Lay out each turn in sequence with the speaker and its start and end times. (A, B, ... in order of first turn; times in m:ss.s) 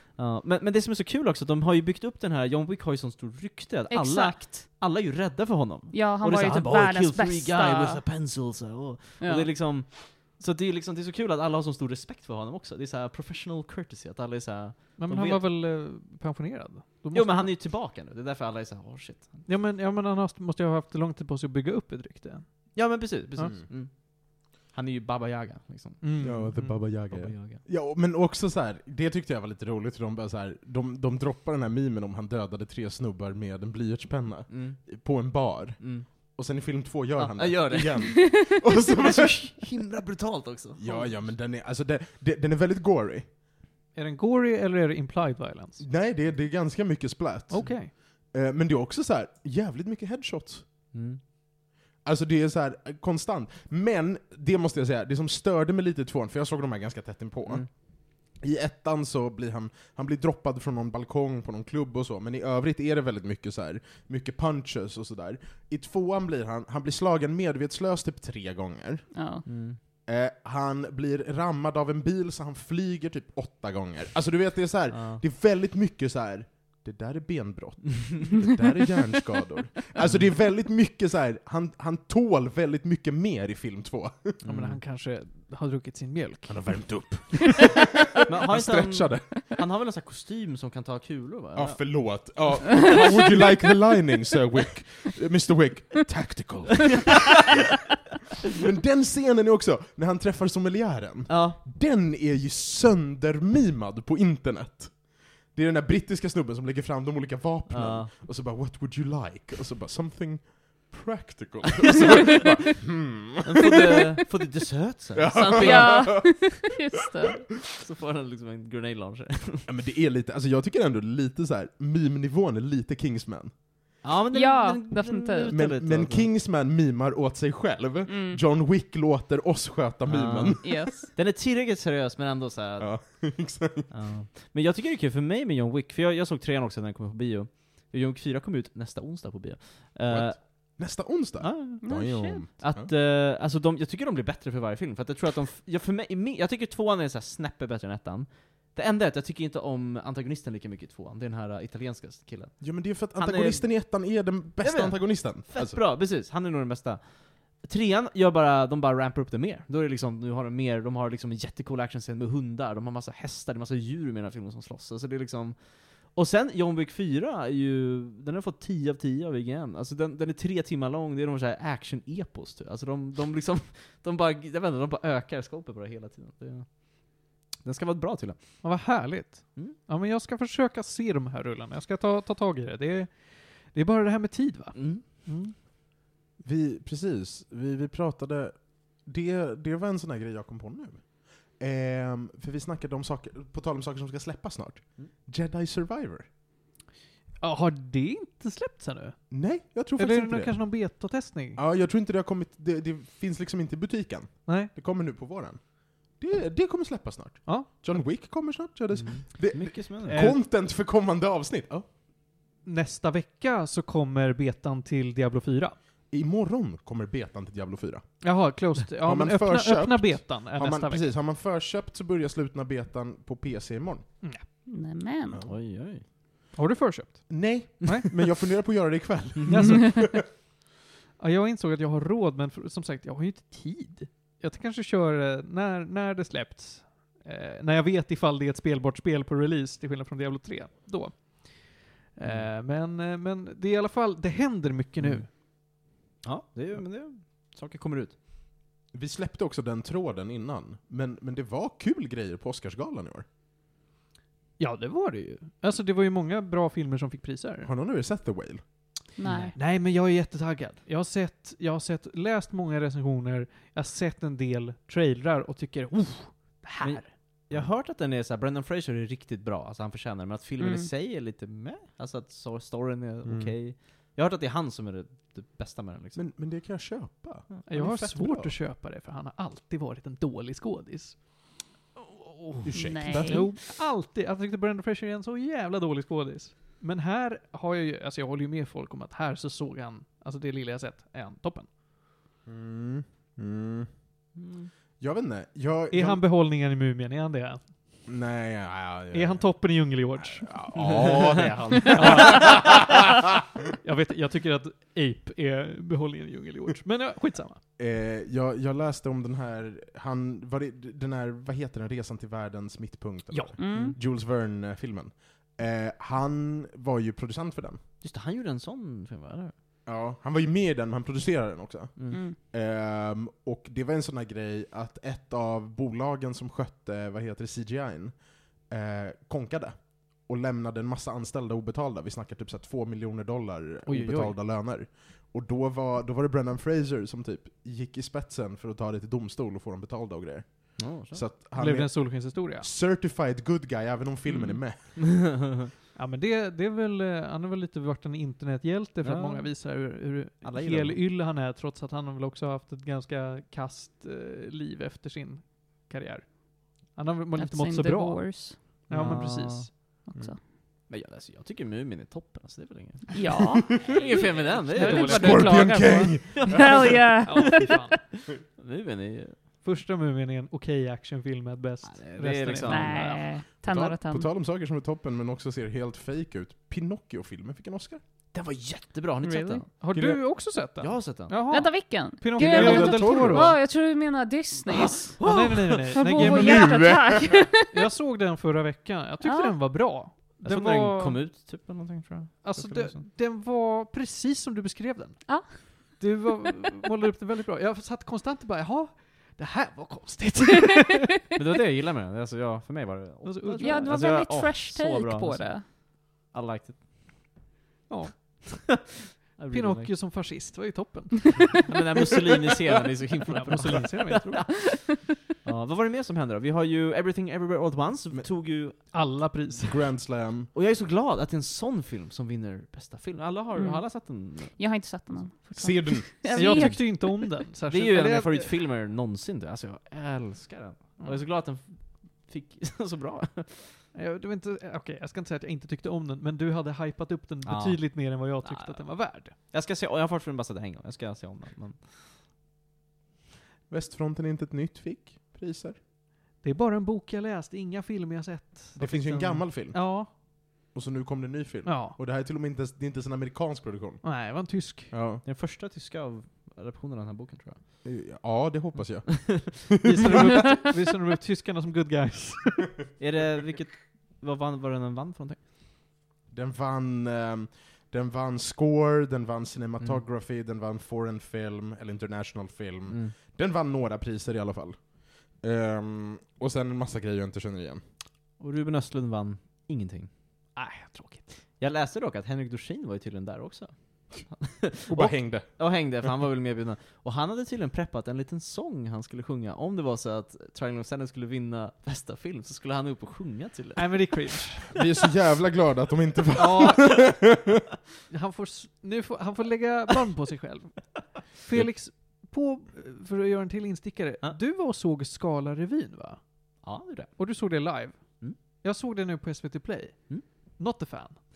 0:00.2-0:15.4 A
0:03.9-0:04.7 B
0:05.9-0:08.0 B
0:09.2-0:09.5 B
0:15.0-0:17.6 C
0:17.1-0:19.4 A
0:19.5-0:23.5 C
0:22.7-0:26.5 A
0:26.0-0:26.9 C
0:26.2-0:39.7 D
0:27.1-0:27.6 A
0:34.5-0:34.9 A
0:35.8-0:36.1 A
0:37.2-0:41.2 A
0:40.8-0:43.3 D
0:44.0-0:45.8 C
0:45.8-0:50.7 D
0:47.5-0:47.9 C
0:50.9-0:51.2 A
0:52.0-1:09.1 D
1:09.1-1:09.5 B
1:09.5-1:09.8 A
1:10.1-1:24.4 D
1:14.9-1:15.2 A
1:24.4-1:24.8 A
1:24.5-1:26.9 C
1:26.5-1:29.4 D
1:28.3-1:31.9 A
1:31.6-1:37.4 D
1:38.5-1:53.8 D
1:41.3-1:41.6 A
1:47.7-1:48.1 A
1:53.4-1:56.3 A
1:55.2-1:56.6 D
1:55.5-1:57.4 B
1:57.8-1:59.7 A
1:59.7-2:03.5 D
2:04.0-2:06.3 A
2:04.3-2:05.5 B
2:05.5-2:10.7 D
2:08.1-2:08.4 B
2:10.1-2:13.2 A
2:10.6-2:11.1 B
2:12.8-2:13.9 D
2:13.9-2:20.8 A
2:20.1-2:22.9 D
2:21.4-2:33.9 A
2:21.8-2:22.5 B
2:32.6-2:35.8 D
2:34.6-2:58.6 A
2:58.6-3:05.6 C
3:04.7-3:05.0 A
3:06.4-3:16.3 D
3:17.4-3:19.3 C
3:19.3-3:20.7 D
3:20.0-3:21.6 C
3:21.6-3:31.9 D
3:24.5-3:24.7 C
3:29.0-3:30.3 A
3:30.0-3:30.4 C
3:32.6-3:35.8 C
3:36.1-3:38.3 D
3:38.2-3:41.0 C
3:39.0-3:44.0 D
3:44.7-3:45.4 B
3:45.5-3:46.0 A
3:46.5-3:48.1 C
3:47.3-3:50.2 D
3:49.5-3:50.4 C
3:51.2-4:05.3 C
4:02.2-4:02.5 A
4:05.0-4:05.3 A
4:06.2-4:08.2 A
4:08.9-4:13.3 D
4:14.6-4:17.7 C
4:17.6-4:18.6 D
4:19.2-4:19.6 B
4:19.2-4:19.5 A
4:19.5-4:27.1 C
4:26.8-4:36.3 A
4:30.6-4:30.9 B
4:33.2-4:33.6 D
4:36.2-4:38.5 D
4:37.7-4:41.2 C
4:42.0-4:42.9 A
4:42.6-4:43.5 D
4:42.7-4:43.5 B
4:43.1-4:51.7 C
4:52.5-4:53.9 D
4:54.4-4:54.7 A
4:55.0-4:56.2 D
4:55.9-4:57.7 C
4:58.1-5:02.9 D
4:59.1-5:01.1 C
5:01.0-5:02.5 A
5:01.9-5:03.0 C
5:03.8-5:07.6 C
5:07.8-5:17.8 D
5:13.3-5:13.6 C
5:13.6-5:14.0 B
5:18.0-5:19.5 A
5:19.9-5:45.0 D
5:33.9-5:34.3 C
5:40.8-5:41.3 A
5:41.5-5:42.7 C
5:45.0-5:45.4 A
5:46.0-5:59.7 C
5:49.0-5:49.6 A
5:50.4-5:51.0 A
5:57.4-5:58.9 B
5:58.9-5:59.7 A
6:00.1-6:00.4 B
6:00.9-6:05.7 A
6:03.2-6:03.9 B
6:04.5-6:05.8 C
6:04.7-6:07.8 B
6:05.1-6:07.0 D
6:06.5-6:06.8 A
6:07.2-6:08.0 C
6:08.5-6:09.4 A
6:09.6-6:13.2 C
6:11.8-6:13.1 A
6:12.6-6:14.3 B
6:13.5-6:18.0 D
6:18.3-6:19.7 A
6:19.2-6:19.6 B
6:19.7-6:23.6 C
6:19.9-6:20.2 D
6:20.8-6:21.4 A
6:21.5-6:27.7 B
6:22.4-6:23.6 D
6:25.2-6:31.2 C
6:25.2-6:25.9 A
6:26.2-6:27.4 D
6:29.2-6:29.6 B
6:30.4-6:33.1 A
6:32.4-6:41.2 C
6:35.3-6:36.0 B
6:41.4-6:46.8 A
6:43.2-6:44.1 C
6:43.6-6:45.7 B
6:47.9-6:48.9 C
6:49.4-6:49.9 A
6:49.5-6:51.7 C
6:51.7-6:54.6 A
6:53.3-6:54.6 C
6:55.4-6:58.8 A
6:58.9-6:59.9 C
6:59.6-7:00.5 D
7:00.5-7:04.6 A
7:03.6-7:07.4 B
7:05.6-7:06.8 D
7:06.3-7:08.5 C
7:07.7-7:13.8 A
7:13.9-7:19.4 C
7:17.4-7:21.8 A
7:23.7-7:25.8 D
7:26.4-7:30.1 C
7:28.8-7:29.9 D
7:28.8-7:29.3 A
7:30.7-7:34.2 D
7:31.6-7:32.0 C
7:34.0-7:34.9 C
7:34.9-7:35.2 D
7:35.2-7:37.6 A
7:37.8-7:40.4 D
7:39.1-7:39.5 A
7:39.8-7:42.8 C
7:43.0-7:45.4 A
7:46.3-7:57.8 D
7:58.4-8:00.1 A
8:00.6-8:01.4 C
8:01.6-8:14.3 A
8:04.9-8:05.6 D
8:13.8-8:14.8 C
8:14.7-8:17.5 D
8:16.4-8:17.2 C
8:18.1-8:26.2 C
8:26.6-8:27.1 A
8:27.2-8:31.2 C